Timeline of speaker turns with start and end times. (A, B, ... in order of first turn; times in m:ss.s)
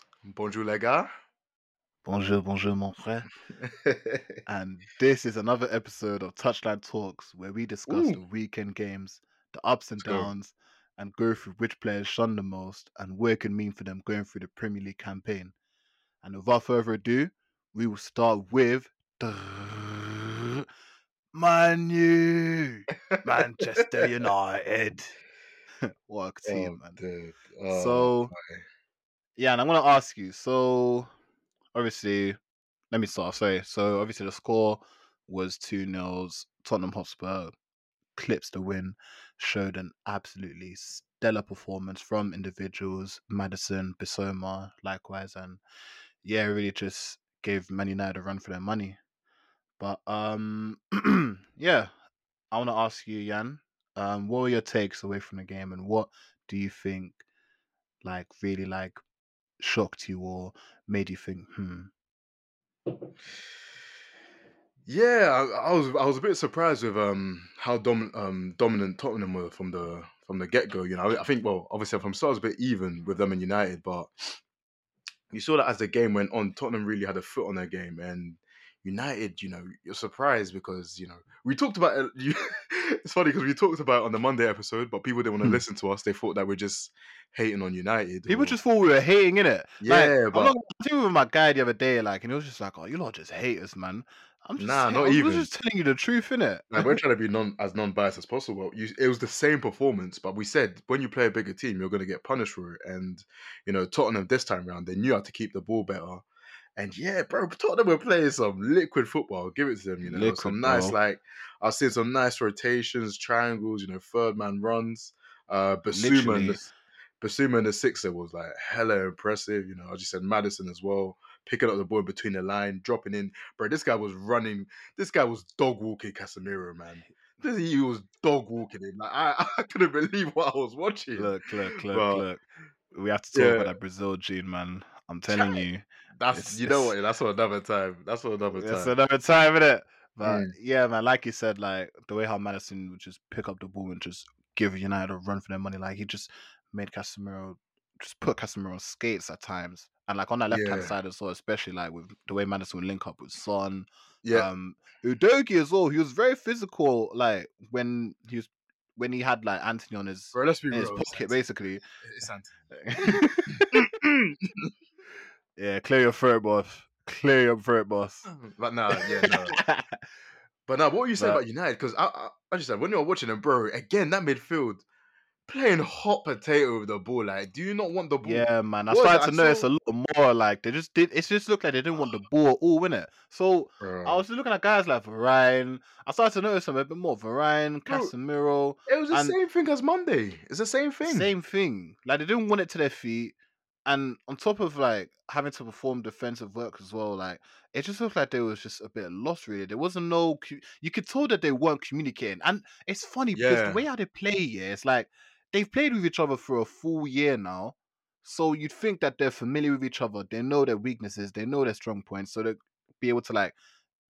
0:00.2-0:01.1 A
0:02.0-0:03.3 B
0:03.6-0:04.3 A
0:04.4-0:15.5 B
0:07.9-0:08.2 A
0:10.0-0:10.3 A
0:16.2-0:20.2 B
0:21.3-0:25.1 B
0:25.8-0:27.0 B
0:26.4-0:28.6 A
0:27.7-0:28.3 B
0:29.4-0:31.1 B
0:31.7-0:32.4 B
0:32.9-0:37.5 B
0:38.2-0:45.6 B
0:46.2-0:49.0 B
0:49.8-0:51.9 B
0:52.5-0:57.2 B
0:58.0-0:59.0 B
0:59.6-1:01.9 B
1:04.8-1:14.1 A
1:15.3-1:28.6 A
1:28.3-1:36.9 B
1:29.8-1:30.5 A
1:34.6-1:35.5 A
1:36.7-1:46.2 A
1:46.8-1:56.6 A
1:50.0-1:51.0 B
1:55.9-1:56.7 B
1:57.2-2:12.2 A
2:11.2-2:16.9 B
2:13.3-2:13.7 A
2:15.3-2:18.9 A
2:18.5-2:41.8 B
2:20.2-2:20.5 A
2:30.5-2:31.0 A
2:34.2-2:34.5 A
2:40.3-2:44.7 A
2:42.7-2:43.8 B
2:45.6-2:48.3 B
2:48.3-2:49.6 A
2:49.0-2:49.9 B
2:50.7-2:54.8 A
2:55.5-2:59.7 A
2:58.2-3:09.4 B
3:03.8-3:04.2 A
3:07.9-3:08.1 A
3:08.9-3:11.3 A
3:11.0-3:33.5 B
3:23.3-3:23.8 A